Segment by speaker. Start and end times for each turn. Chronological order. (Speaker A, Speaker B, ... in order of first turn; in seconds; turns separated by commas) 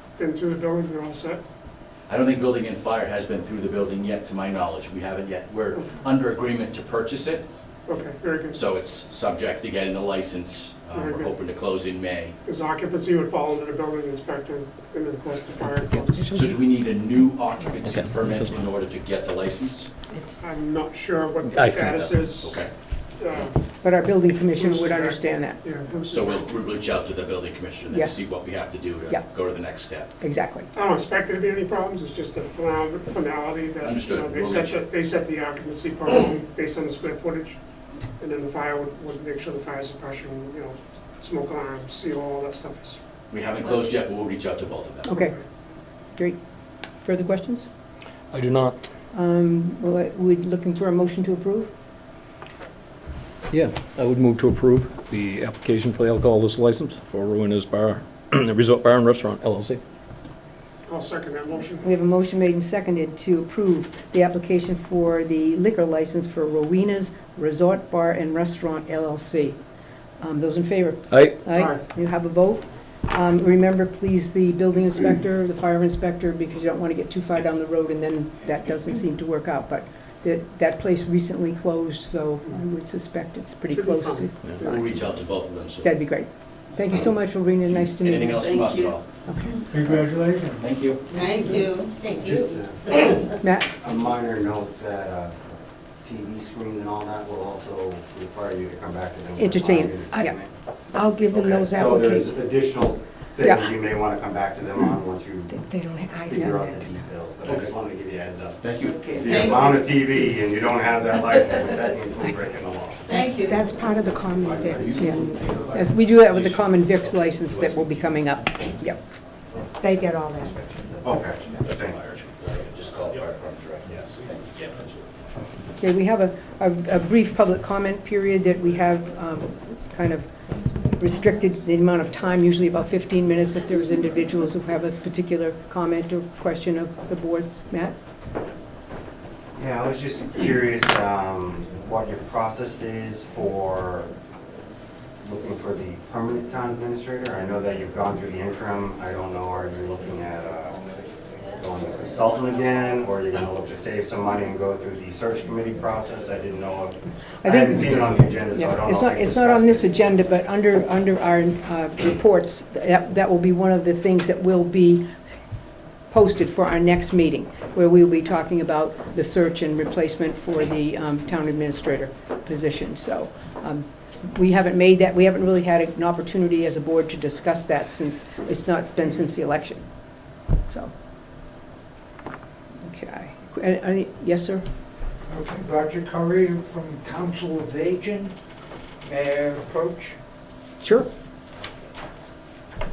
Speaker A: 0.2-1.4, Speaker B: 2.1-7.5, Speaker A: 7.9-8.6, Speaker B: 8.5-12.4, Speaker A: 10.9-11.3, Speaker A: 12.5-16.2, Speaker C: 16.0-16.6, Speaker B: 16.3-19.9, Speaker D: 17.9-18.7, Speaker C: 20.1-20.5, Speaker A: 20.4-23.6, Speaker D: 21.5-22.0, Speaker B: 22.0-22.7, Speaker E: 23.8-25.6, Speaker A: 24.5-26.5, Speaker B: 26.1-30.1, Speaker E: 30.2-30.7, Speaker A: 30.7-37.6, Speaker B: 33.8-34.9, Speaker A: 38.2-43.0, Speaker B: 43.3-45.2, Speaker E: 45.1-45.4, Speaker A: 45.1-45.4, Speaker E: 47.0-47.7, Speaker D: 48.3-48.8, Speaker E: 49.1-51.7, Speaker D: 53.5-59.8, Speaker A: 60.9-61.9, Speaker E: 61.8-69.6, Speaker E: 70.2-84.8, Speaker D: 71.1-71.5, Speaker A: 83.7-84.8, Speaker B: 84.6-86.0, Speaker E: 85.8-88.7, Speaker B: 87.6-89.0, Speaker F: 88.5-88.9, Speaker E: 89.3-89.6, Speaker B: 89.7-91.1, Speaker G: 89.7-90.6, Speaker F: 91.1-92.3, Speaker H: 92.1-100.5, Speaker E: 93.4-93.7, Speaker E: 99.4-100.3, Speaker C: 100.9-102.3, Speaker H: 101.3-105.6, Speaker C: 105.5-107.1, Speaker H: 106.2-113.2, Speaker B: 107.5-107.7, Speaker B: 108.6-109.7, Speaker F: 109.3-109.8, Speaker F: 113.1-113.6, Speaker C: 113.3-115.5, Speaker H: 114.4-115.5, Speaker B: 114.8-115.8, Speaker E: 115.0-119.0, Speaker B: 116.3-116.5, Speaker B: 117.5-117.8, Speaker C: 119.8-120.6, Speaker B: 120.6-124.9, Speaker H: 121.0-122.0, Speaker E: 125.8-130.3, Speaker E: 131.0-137.9, Speaker H: 139.6-144.1, Speaker H: 145.2-150.8, Speaker H: 151.6-159.9, Speaker E: 157.4-165.1, Speaker E: 166.1-179.8, Speaker E: 182.8-184.7, Speaker G: 185.3-188.3, Speaker G: 189.0-190.2, Speaker E: 190.8-191.1